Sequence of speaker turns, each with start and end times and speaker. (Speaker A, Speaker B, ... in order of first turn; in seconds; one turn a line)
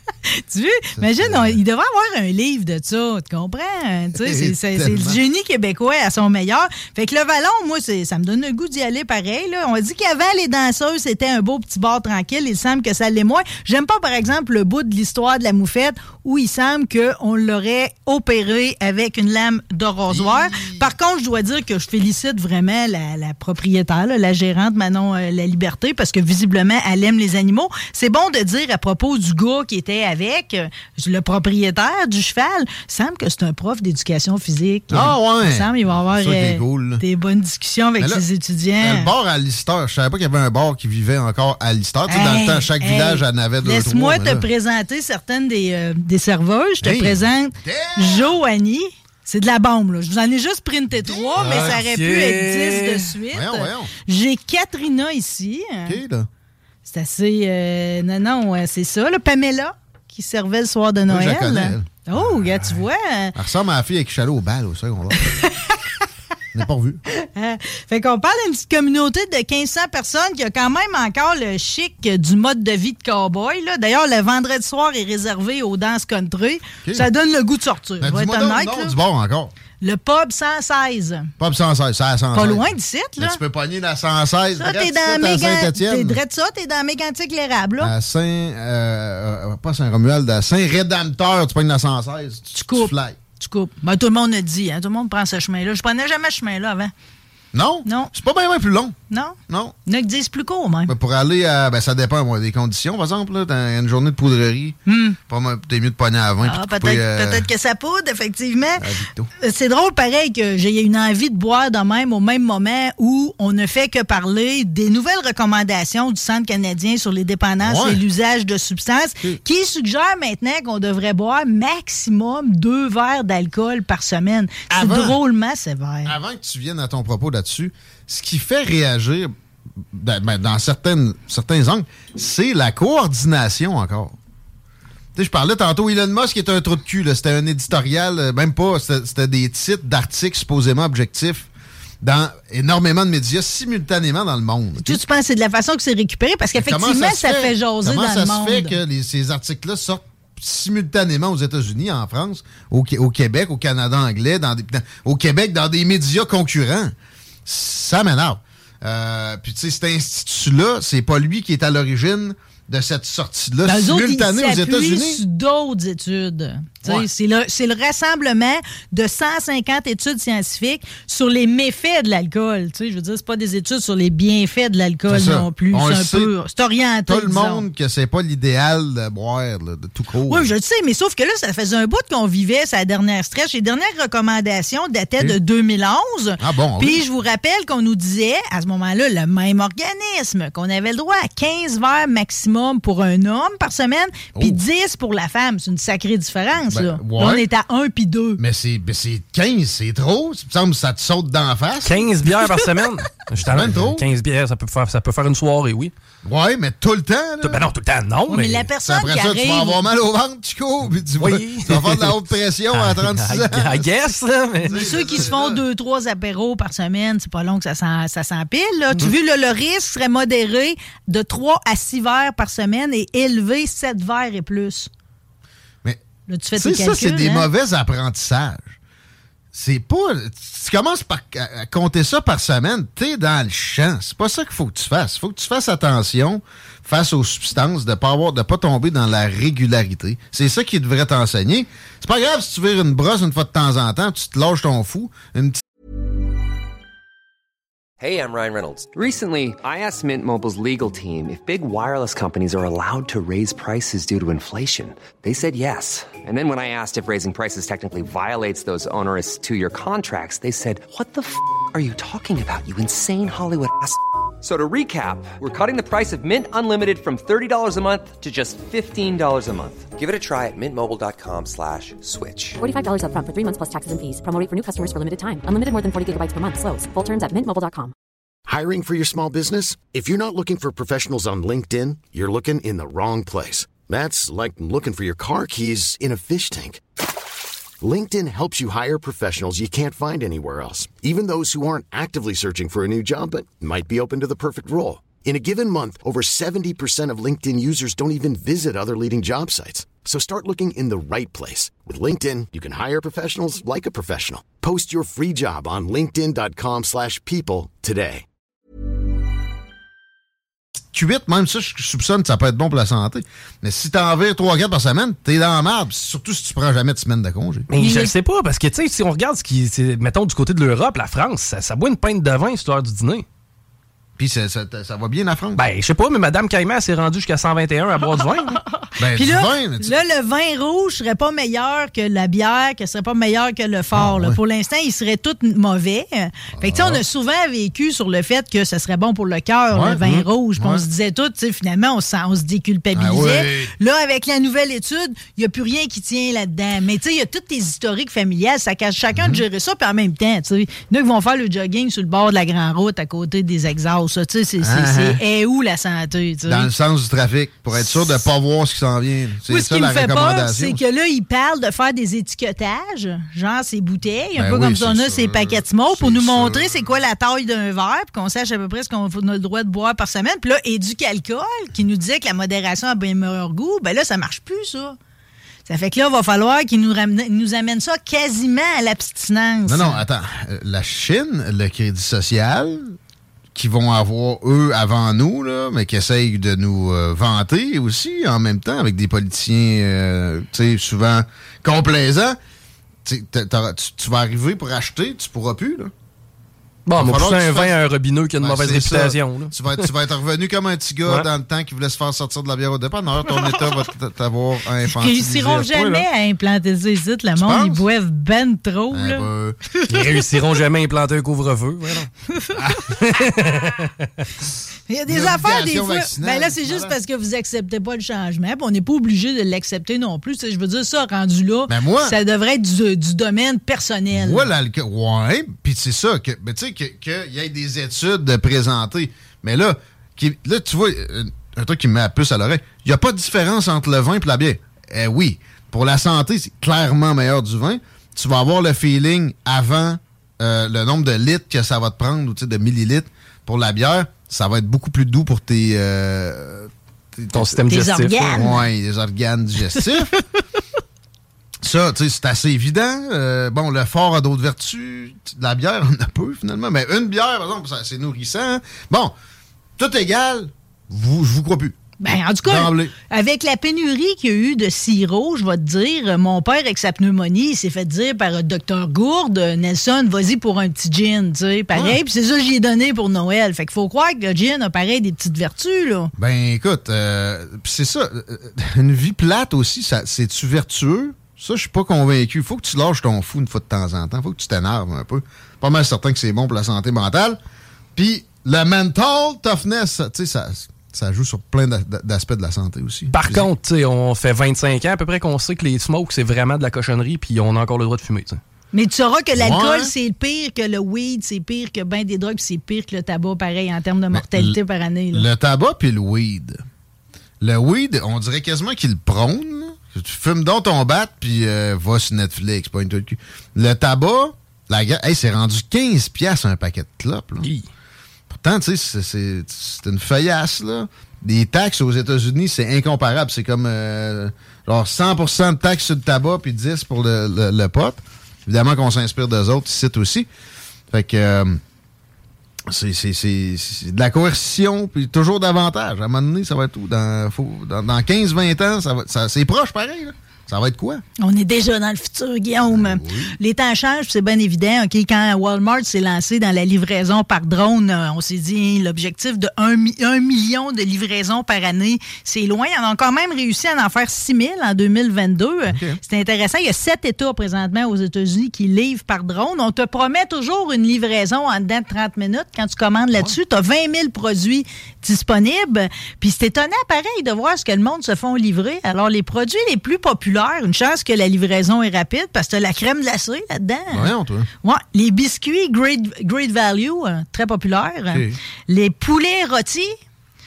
Speaker A: 0.3-39.1
Speaker B: 0.9-1.6
Speaker B: 4.2-5.2
Speaker B: 20.1-20.9
Speaker B: 34.9-37.0
Speaker B: 38.0-38.2
Speaker B: 38.8-44.5
Speaker A: 42.1-56.0
Speaker B: 46.8-48.4
Speaker B: 50.9-51.8
Speaker C: 51.4-53.1
Speaker B: 53.3-53.9
Speaker B: 55.9-56.3
Speaker A: 56.9-63.3
Speaker B: 61.1-62.8
Speaker B: 63.3-65.4
Speaker A: 65.2-65.8
Speaker B: 66.5-67.0
Speaker A: 67.1-78.9
Speaker B: 78.0-79.5
Speaker A: 79.8-81.3
Speaker B: 81.4-86.2
Speaker A: 82.3-83.4
Speaker A: 84.6-87.9
Speaker B: 87.8-93.2
Speaker A: 92.5-96.9
Speaker B: 97.5-99.0
Speaker A: 97.8-98.1
Speaker A: 99.1-100.9
Speaker B: 99.5-99.7
Speaker B: 100.9-107.5
Speaker A: 104.9-105.2
Speaker A: 106.4-108.8
Speaker B: 108.8-109.3
Speaker A: 109.4-126.2
Speaker B: 117.6-118.0
Speaker B: 124.7-125.2
Speaker B: 126.0-129.3
Speaker B: 129.9-134.2
Speaker B: 135.2-141.5
Speaker B: 142.0-145.0
Speaker A: 144.8-148.8
Speaker B: 146.6-156.9
Speaker B: 157.4-165.2
Speaker A: 163.7-177.6
Speaker B: 175.1-176.3
Speaker B: 177.1-180.5
Speaker A: 180.3-198.4
Speaker B: 186.4-187.0
Speaker B: 194.3-194.6
Speaker B: 196.7-197.5
Speaker B: 198.4-202.3
Speaker C: 201.8-205.9
Speaker B: 203.4-204.1
Speaker B: 206.2-207.7
Speaker C: 207.4-208.7
Speaker A: 208.3-209.8
Speaker B: 208.8-213.9
Speaker C: 211.2-212.2
Speaker C: 212.7-215.3
Speaker B: 214.6-215.6
Speaker A: 214.7-224.9
Speaker A: 226.3-227.5
Speaker B: 226.6-228.8
Speaker B: 229.5-245.6
Speaker D: 248.0-272.6
Speaker E: 272.6-277.9
Speaker F: 278.5-286.8
Speaker F: 287.8-308.2
Speaker B: 310.9-317.7
Speaker C: 317.7-323.2
Speaker A: 317.8-318.1
Speaker B: 324.2-325.6
Speaker C: 325.6-328.6
Speaker B: 329.0-330.0
Speaker A: 329.1-356.7
Speaker B: 333.9-334.4
Speaker B: 336.6-337.0
Speaker B: 339.7-340.0
Speaker B: 340.6-340.8
Speaker B: 342.9-343.7
Speaker B: 349.1-349.4
Speaker B: 354.6-355.2
Speaker B: 356.4-360.8
Speaker A: 357.7-358.1
Speaker A: 359.5-375.0
Speaker B: 364.4-366.9
Speaker A: 375.7-380.0
Speaker B: 379.7-383.0
Speaker B: 383.5-392.4
Speaker B: 393.1-395.9
Speaker C: 396.9-399.9
Speaker B: 396.9-397.8
Speaker B: 398.4-406.1
Speaker A: 404.9-410.1
Speaker B: 407.4-407.8
Speaker B: 408.9-409.6
Speaker C: 409.9-412.1
Speaker A: 412.3-412.6
Speaker B: 412.6-413.0
Speaker C: 412.9-414.3
Speaker A: 414.9-424.5
Speaker B: 415.1-416.9
Speaker B: 421.7-422.2
Speaker B: 424.1-447.7
Speaker C: 447.3-448.4
Speaker A: 447.7-448.6
Speaker B: 448.3-450.1
Speaker B: 451.6-459.1
Speaker B: 459.8-461.8
Speaker A: 462.0-476.1
Speaker B: 462.4-462.9
Speaker B: 476.2-487.4
Speaker B: 487.9-493.5
Speaker C: 493.1-498.4
Speaker A: 498.7-505.3
Speaker B: 499.3-499.9
Speaker B: 504.1-504.6
Speaker B: 505.1-506.6
Speaker B: 507.4-517.5
Speaker B: 518.3-530.3
Speaker B: 530.9-531.6
Speaker B: 532.7-541.0
Speaker A: 541.2-579.9
Speaker B: 542.7-543.4
Speaker B: 555.7-556.0
Speaker B: 573.9-574.5
Speaker B: 578.1-578.4